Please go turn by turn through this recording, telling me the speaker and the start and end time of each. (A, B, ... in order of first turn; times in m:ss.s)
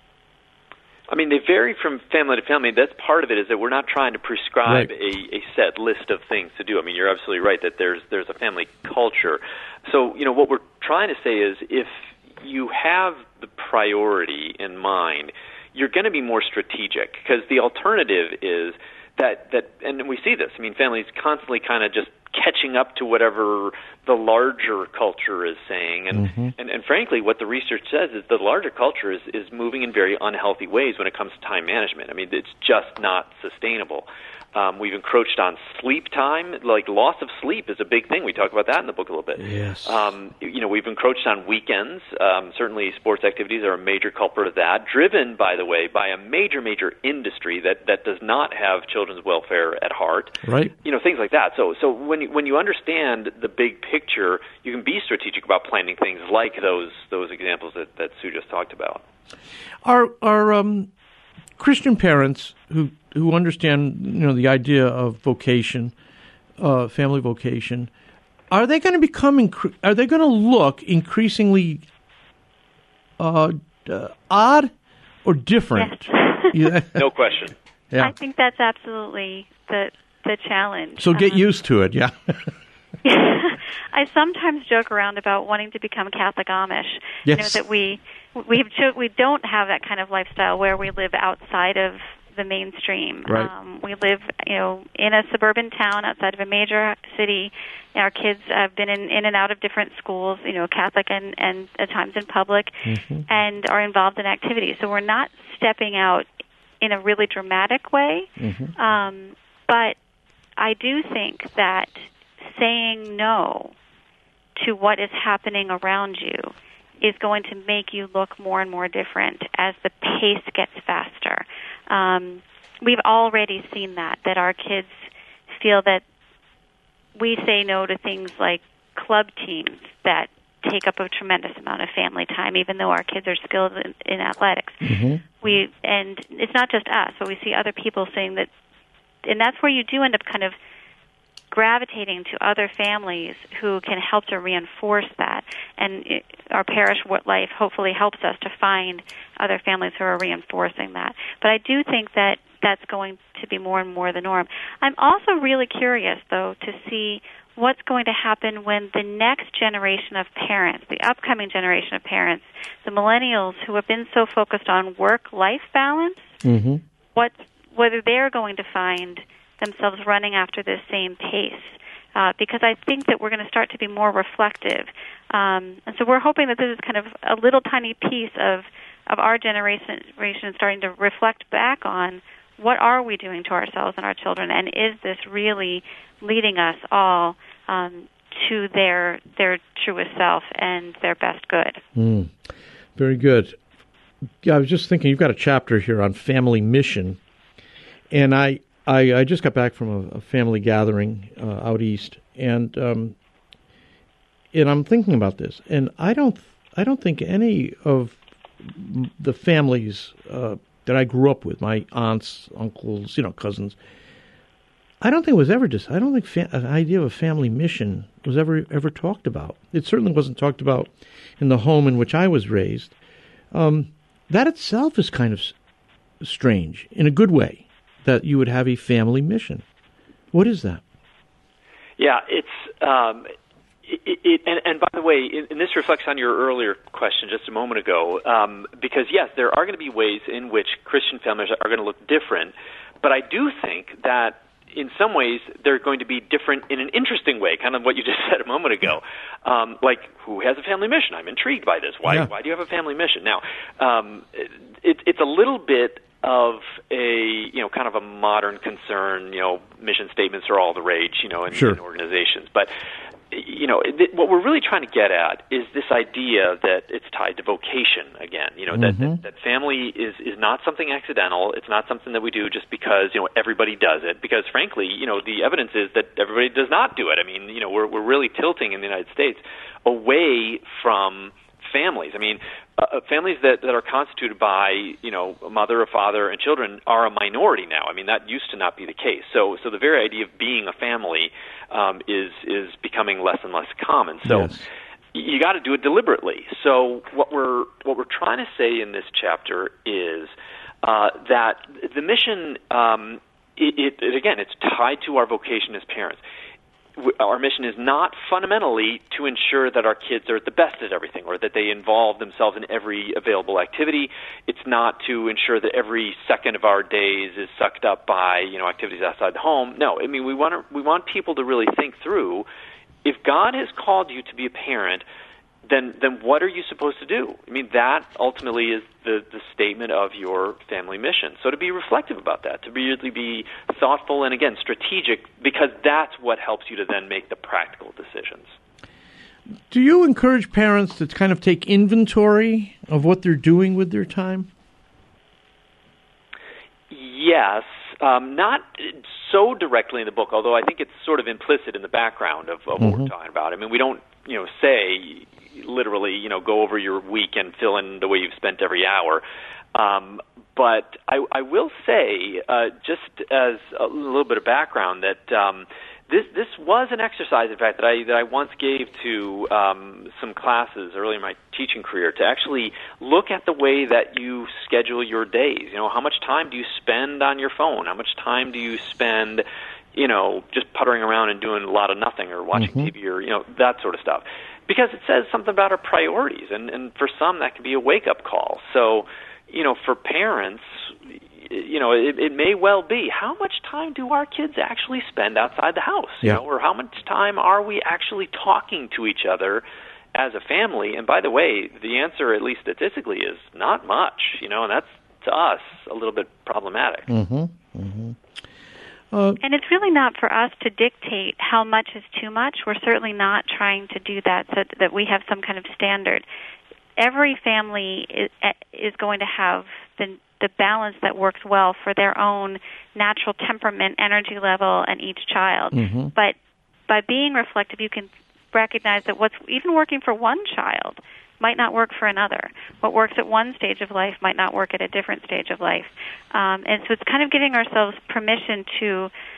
0:01.1-0:59.0 A
0:26.1-0:26.5 B
0:39.4-0:40.0 B
0:50.4-0:50.7 B
0:59.8-1:00.9 B
1:01.6-1:05.9 B
1:06.6-1:07.9 B
1:08.5-1:11.8 B
1:13.2-1:14.7 B
1:15.2-1:17.0 B
1:15.8-1:16.7 C
1:16.9-1:17.6 A
1:18.0-1:21.4 C
1:21.0-1:22.5 B
1:23.0-1:46.3 C
1:27.2-1:27.6 B
1:42.8-1:43.2 B
1:46.8-1:50.0 C
1:48.4-1:48.7 B
1:50.6-1:53.7 C
1:54.6-2:06.0 C
2:07.2-2:18.5 C
2:14.8-2:15.2 B
2:19.2-2:20.5 C
2:21.5-2:46.4 C
2:46.4-2:46.8 B
2:47.1-3:11.8 C
3:11.9-3:13.6 B
3:14.4-3:17.2 B
3:18.1-3:23.2 B
3:24.5-3:33.8 B
3:35.0-3:42.9 B
3:43.5-3:45.5 B
3:46.2-3:49.6 B
3:50.3-3:50.8 B
3:52.0-3:53.3 A
3:53.8-4:22.7 A
4:21.5-4:21.8 B
4:23.3-5:06.2 A
4:28.7-4:29.2 B
4:54.2-4:54.6 B
5:07.0-5:22.4 A
5:23.0-5:25.0 A
5:25.7-5:38.5 A
5:39.7-5:44.5 B
5:46.9-5:59.2 A
5:52.8-5:53.1 B
5:59.7-6:39.6 A
6:22.5-6:22.9 B
6:40.1-6:47.1 A
6:47.1-6:48.2 B
6:49.1-6:49.4 B
6:49.4-6:56.2 C
6:57.0-7:06.4 C
7:05.7-7:06.1 B
7:06.9-7:19.1 C